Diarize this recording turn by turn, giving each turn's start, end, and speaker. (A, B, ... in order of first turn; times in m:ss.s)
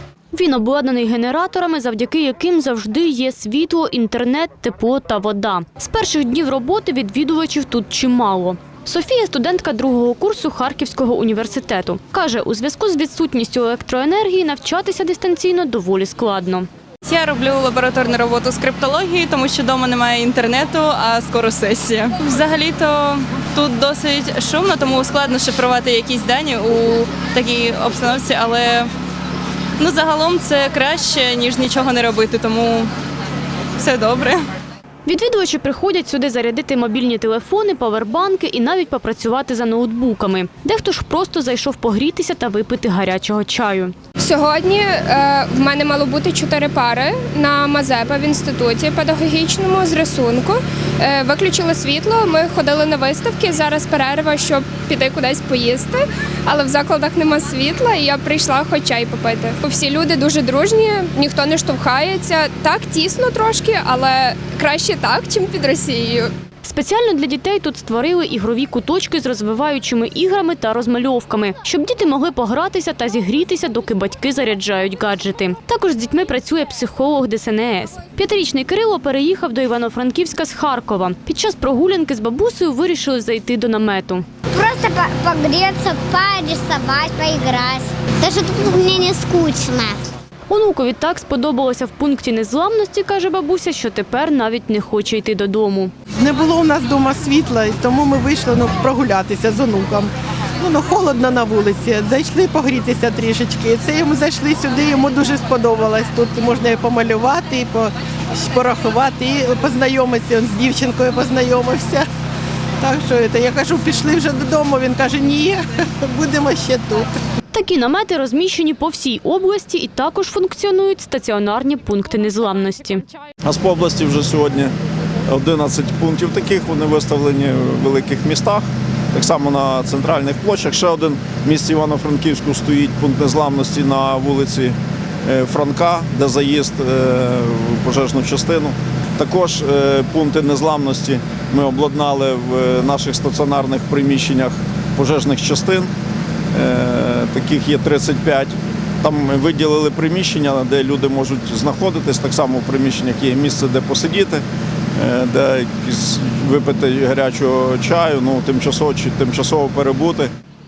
0:00.3-0:16.7 A
0:17.0-0:28.9 B
0:29.8-0:32.9 B
0:33.8-0:34.4 B
0:35.0-0:43.9 A
0:44.2-1:06.3 C
1:06.6-1:24.2 A
1:24.5-1:30.0 D
1:30.5-1:35.9 A
1:36.2-1:52.1 E
1:52.8-1:57.1 E
1:57.5-2:03.0 A
2:03.4-2:04.7 F
2:05.3-2:25.9 F
2:26.5-2:34.4 F
2:35.0-2:40.3 F